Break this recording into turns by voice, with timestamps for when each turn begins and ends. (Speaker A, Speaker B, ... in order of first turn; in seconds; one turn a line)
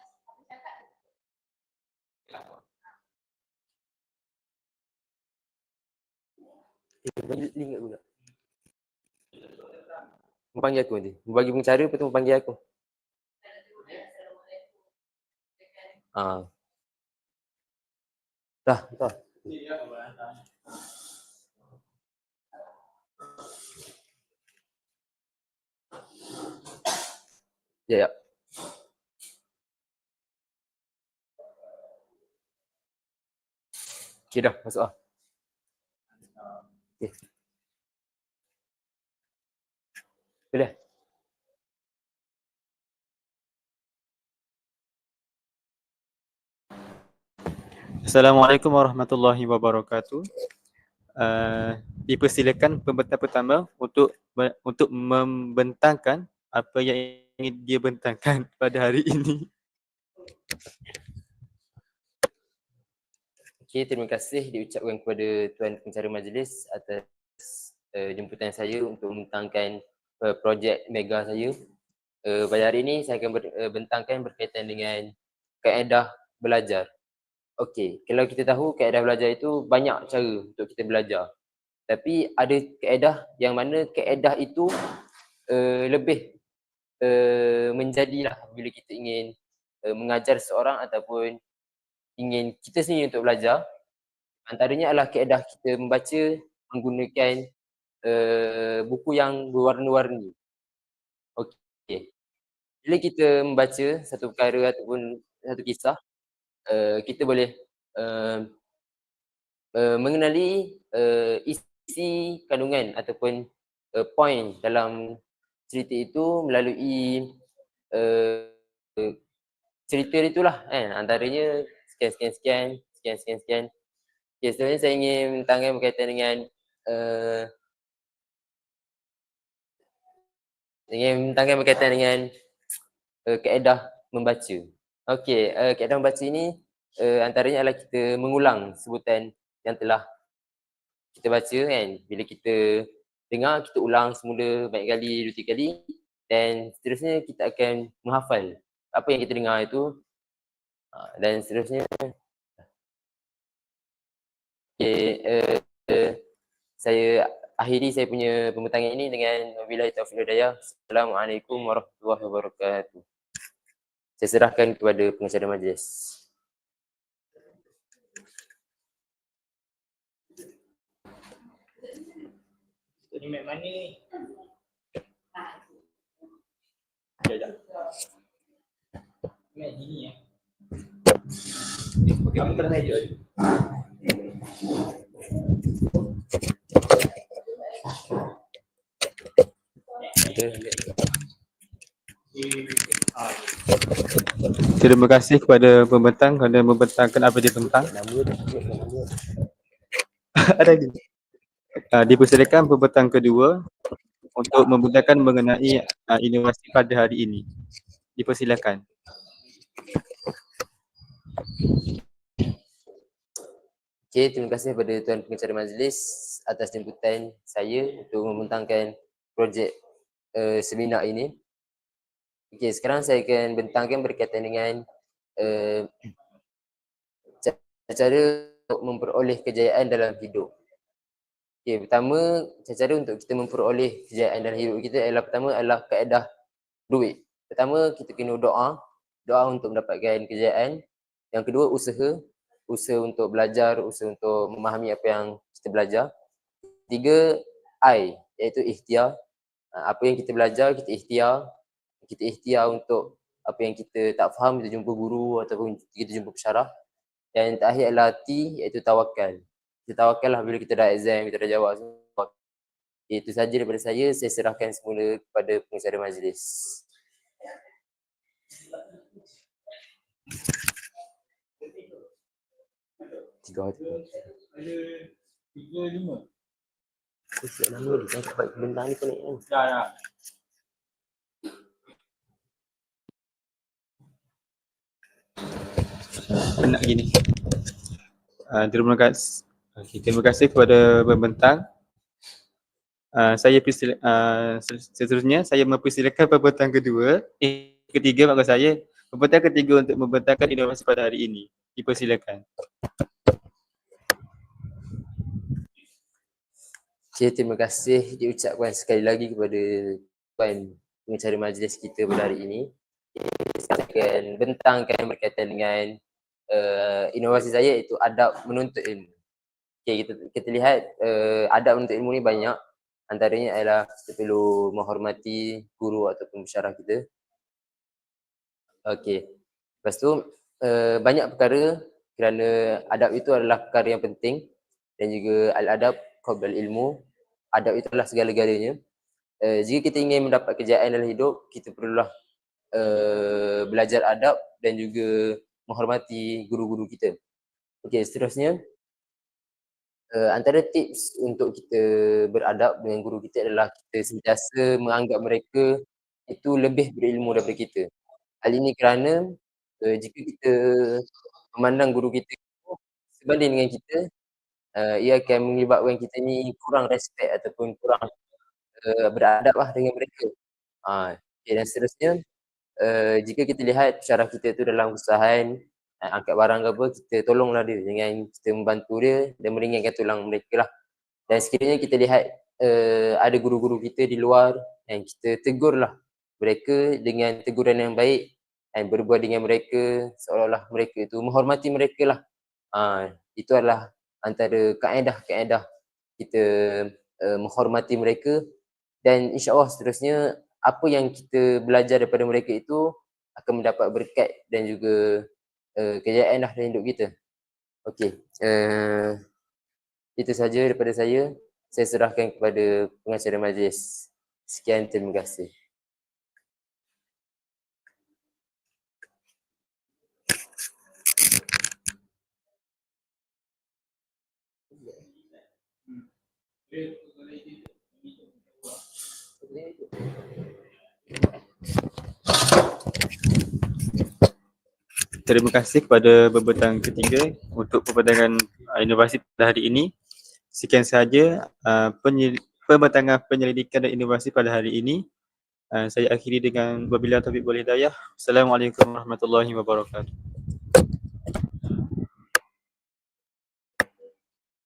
Speaker A: 7.0-8.0
Speaker A: 10.6-12.6
Speaker A: 16.1-16.5
Speaker A: 18.7-19.2
Speaker A: 34.3-34.9
Speaker B: 48.0-50.3
Speaker B: 51.2-59.5
Speaker A: 63.7-71.5
Speaker A: 72.3-75.1
Speaker A: 75.6-76.9
Speaker A: 77.6-81.3
Speaker A: 81.9-84.7
Speaker A: 85.5-86.2
Speaker A: 87.0-89.3
Speaker A: 89.9-91.4
Speaker A: 92.2-93.6
Speaker A: 94.5-97.4
Speaker A: 98.1-100.3
Speaker A: 101.4-102.0
Speaker A: 102.8-106.0
Speaker A: 106.7-108.5
Speaker A: 109.8-113.4
Speaker A: 114.0-115.2
Speaker A: 115.7-117.3
Speaker A: 117.9-119.1
Speaker A: 119.9-123.7
Speaker A: 124.4-127.5
Speaker A: 130.9-132.3
Speaker A: 133.3-140.0
Speaker A: 141.1-149.9
Speaker A: 150.9-152.0
Speaker A: 154.8-156.2
Speaker A: 156.8-163.0
Speaker A: 164.2-166.2
Speaker C: 173.1-174.0
Speaker B: 177.2-177.6
Speaker C: 179.6-180.2
Speaker B: 182.1-183.2
Speaker A: 190.1-191.0
Speaker B: 194.3-197.9
Speaker A: 197.9-199.1
Speaker B: 200.4-201.0
Speaker B: 201.9-203.6
Speaker B: 204.4-207.4
Speaker B: 208.2-208.8
Speaker A: 214.1-219.7
Speaker A: 220.4-221.3
Speaker A: 222.5-224.8
Speaker A: 225.4-225.9
Speaker A: 227.4-230.5
Speaker A: 231.7-236.2
Speaker A: 236.9-240.8
Speaker A: 241.3-242.2
Speaker A: 242.7-246.1
Speaker A: 246.9-249.1
Speaker A: 249.8-251.4
Speaker A: 252.1-256.7
Speaker A: 257.4-262.3
Speaker A: 263.1-266.8
Speaker A: 273.4-274.1
Speaker C: 274.6-275.0
Speaker C: 275.6-276.2
Speaker A: 277.4-279.4
Speaker B: 286.1-287.6
Speaker B: 288.5-291.6
Speaker B: 293.2-302.4
Speaker A: 307.2-315.9
Speaker A: 316.5-319.1
Speaker A: 319.9-322.6
Speaker A: 323.1-327.0
Speaker A: 328.9-329.2
Speaker A: 329.9-334.4
Speaker A: 335.0-336.9
Speaker A: 337.6-338.8
Speaker A: 339.4-342.1
Speaker A: 342.8-347.1
Speaker A: 347.8-348.6
Speaker A: 350.1-355.7
Speaker A: 356.3-357.9
Speaker A: 358.4-359.2
Speaker A: 359.8-361.1
Speaker A: 361.6-364.0
Speaker A: 364.8-368.1
Speaker A: 368.8-370.3
Speaker A: 370.9-372.2
Speaker A: 372.8-380.7
Speaker A: 381.3-392.2
Speaker A: 392.8-395.6
Speaker A: 396.2-398.4
Speaker A: 399.1-402.8
Speaker A: 403.4-405.0
Speaker A: 405.8-407.1
Speaker A: 407.9-409.2
Speaker A: 410.2-415.5
Speaker C: 426.8-427.4
Speaker A: 429.4-430.0
Speaker B: 432.5-432.9
Speaker B: 435.3-439.9
Speaker B: 440.5-445.0
Speaker B: 445.7-450.8